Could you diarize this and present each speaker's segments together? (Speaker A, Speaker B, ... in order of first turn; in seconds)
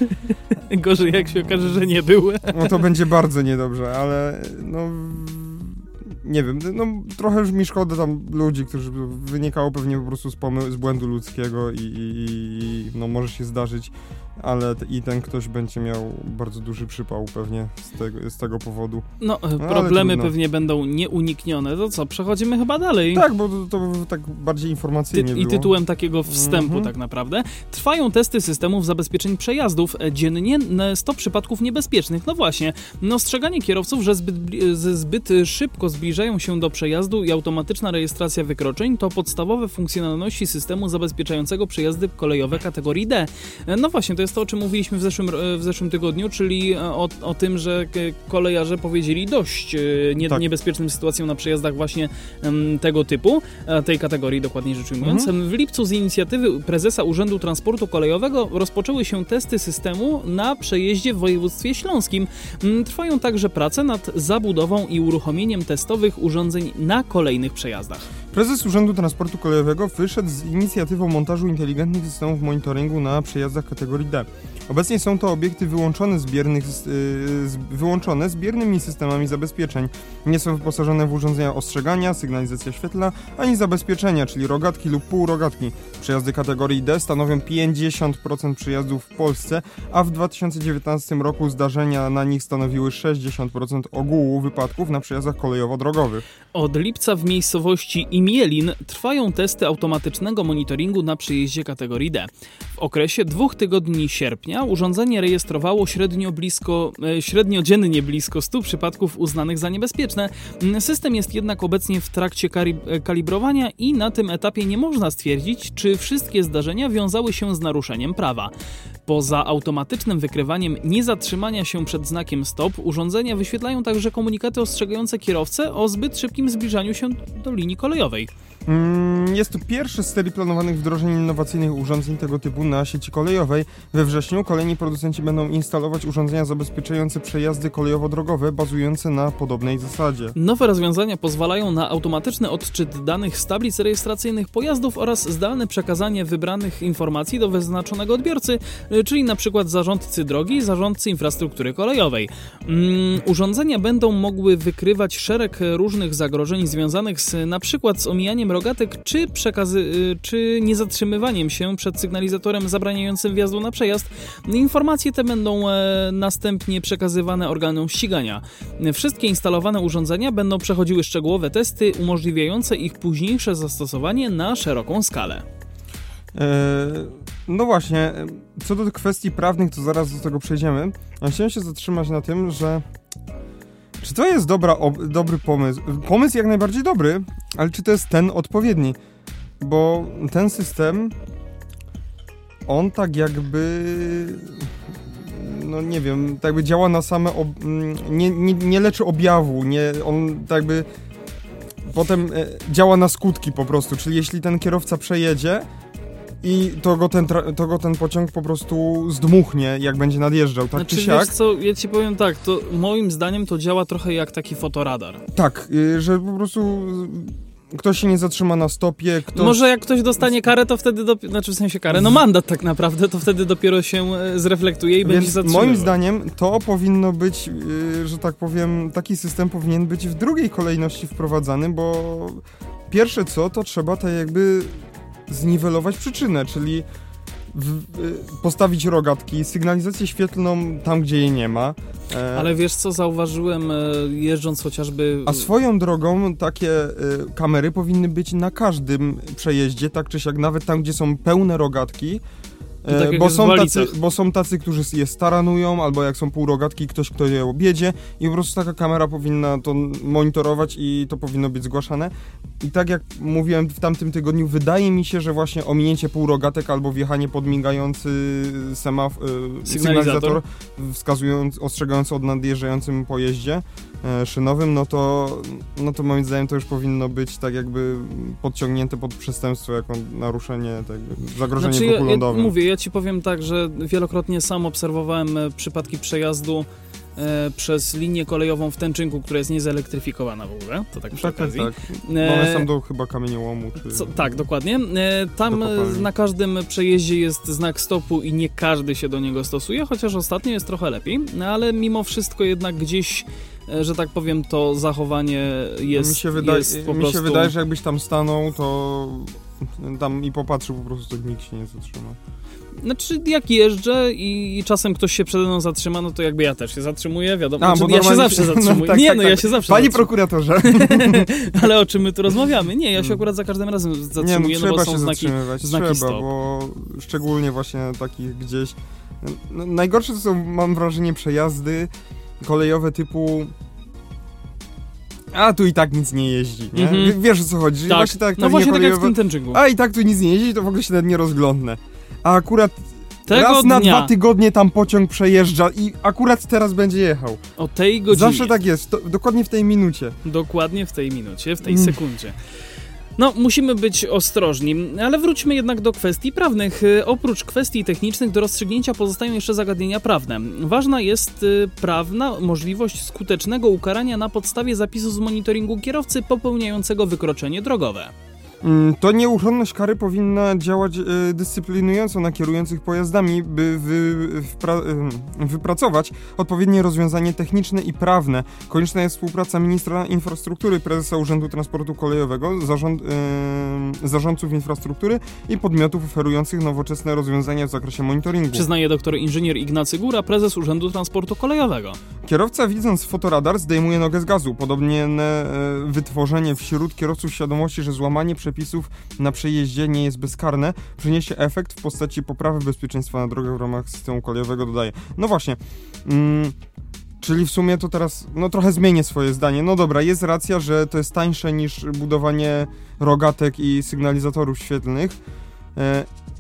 Speaker A: 0.5-2.8, 19.2-23.2, 25.1-68.1, 96.5-118.5, 119.1-128.3, 140.3-175.4, 210.8-215.2, 219.3-225.9, 242.3-245.5, 252.9-253.9, 269.7-270.4, 281.6-286.7, 287.2-292.7, 293.8-307.5, 312.8-320.1, 320.6-326.3, 336.8-337.2, 337.9-339.6, 343.3-344.1, 347.6-348.5, 350.2-352.4, 353.2-368.1, 388.5-392.0
Speaker B: 2.5-19.1, 19.6-20.3, 23.1-25.7, 26.3-26.9, 55.0-55.3, 68.3-96.2, 128.7-140.3, 176.3-182.8, 184.0-189.0, 189.6-191.2, 192.7-200.9, 201.9-205.7, 206.4-211.3, 215.3-219.6, 221.9-222.2, 225.0-236.9, 237.5-242.5, 245.3-252.2, 252.8-282.5, 291.2-294.3, 295.5-296.1, 305.9-312.2, 317.6-321.7, 324.2-333.5, 335.3-347.4, 348.1-350.2, 351.6-352.0, 368.6-388.7, 392.2-406.6, 407.2-415.2, 415.8-416.1